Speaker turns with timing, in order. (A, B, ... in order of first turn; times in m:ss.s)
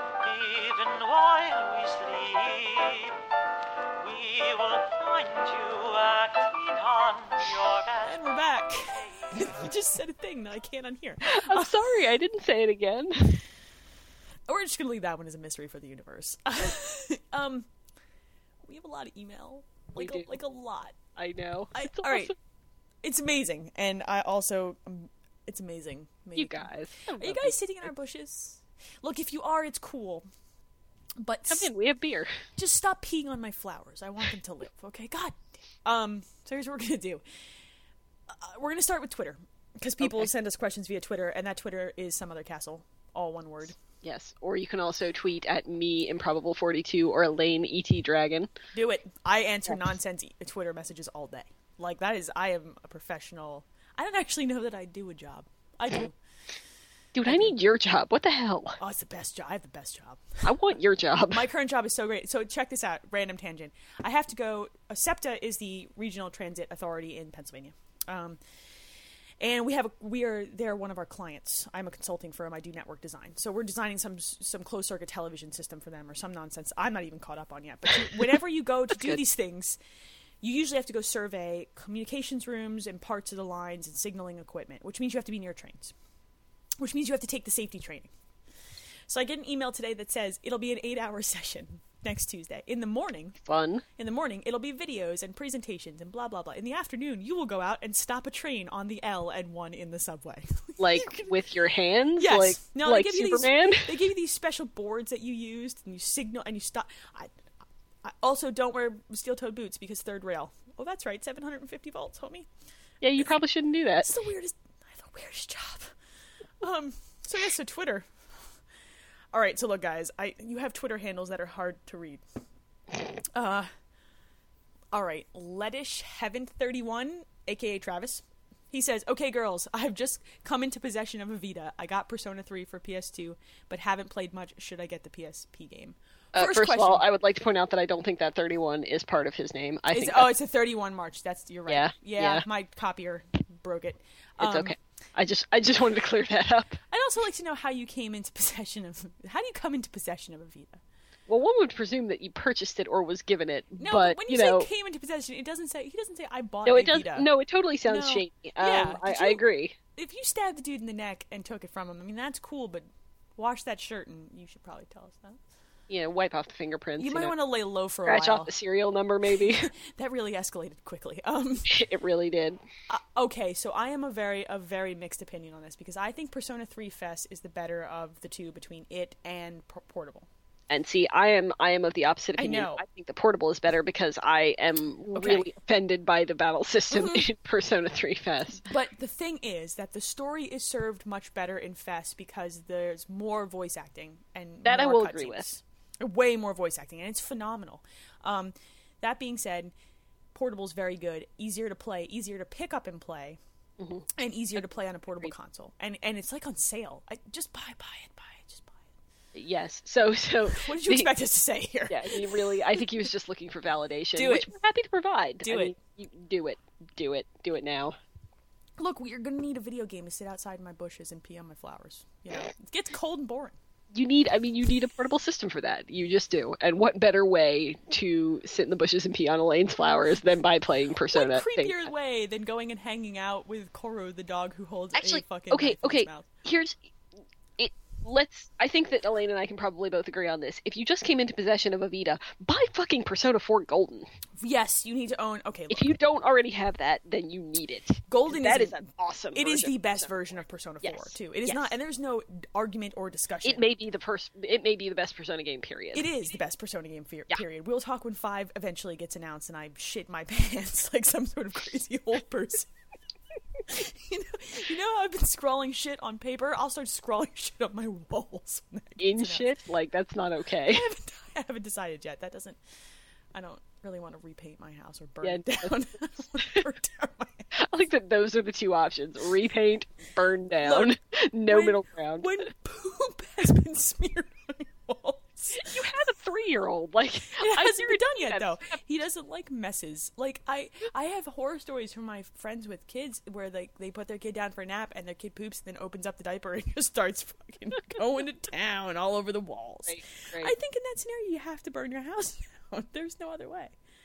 0:00.2-0:03.2 A
0:04.0-0:08.2 A
0:08.0-0:12.0 B
0:11.2-0:13.4 C
0:14.5-0:17.7 B
0:18.7-0:21.0 B
0:20.0-0:20.3 C
0:21.2-0:22.4 C
0:21.8-0:22.3 B
0:23.0-0:30.3 B
0:26.4-0:27.9 C
0:31.2-0:31.7 B
0:31.5-0:32.4 C
0:32.6-0:37.2 B
0:38.3-0:43.8 B
0:40.0-0:40.3 C
0:44.0-0:48.5 C
0:48.7-0:56.1 B
0:57.2-0:58.8 C
0:57.3-0:57.6 B
0:58.8-1:00.4 B
1:00.4-1:01.5 C
1:01.3-1:08.4 B
1:09.4-1:19.8 B
1:20.4-1:26.0 B
1:26.8-1:28.1 B
1:29.1-1:41.4 B
1:33.5-1:33.8 C
1:40.8-1:44.0 C
1:42.2-1:47.3 B
1:48.0-1:52.5 B
1:53.0-1:54.1 C
1:54.0-1:55.9 B
1:56.6-1:58.1 B
1:59.3-2:02.2 B
2:03.0-2:03.7 B
2:04.9-2:17.1 B
2:16.4-2:20.3 C
2:19.9-2:24.8 B
2:21.7-2:22.4 C
2:24.4-2:26.8 C
2:26.9-2:30.8 B
2:31.3-2:34.7 C
2:33.8-2:37.3 B
2:36.7-2:39.8 C
2:37.9-2:39.4 B
2:40.0-2:45.4 B
2:45.9-2:47.3 C
2:47.0-2:48.5 B
2:48.0-2:49.7 C
2:49.4-2:51.8 B
2:51.7-2:52.6 C
2:52.9-3:00.3 B
3:00.7-3:08.7 C
3:02.4-3:02.8 B
3:05.1-3:05.5 B
3:06.9-3:07.3 B
3:08.6-3:19.7 B
3:14.6-3:15.5 C
3:20.3-3:23.4 B
3:23.8-3:24.1 C
3:24.2-3:28.8 B
3:29.4-3:31.1 C
3:30.5-3:32.8 B
3:31.9-3:38.0 C
3:34.2-3:34.6 B
3:35.4-3:35.8 B
3:38.8-3:43.6 B
3:43.9-3:51.9 C
3:51.1-3:56.3 B
3:55.0-3:56.8 C
3:57.6-4:04.1 C
4:04.4-4:05.9 B
4:05.7-4:10.0 C
4:08.1-4:13.6 B
4:10.8-4:11.8 C
4:13.4-4:16.1 C
4:15.9-4:22.7 B
4:23.6-4:29.5 B
4:29.0-4:30.9 C
4:30.7-4:32.6 B
4:33.3-4:37.5 B
4:35.2-4:35.7 C
4:37.5-4:42.5 C
4:40.6-4:45.9 B
4:45.5-4:48.7 C
4:47.4-5:03.7 B
4:59.9-5:00.6 C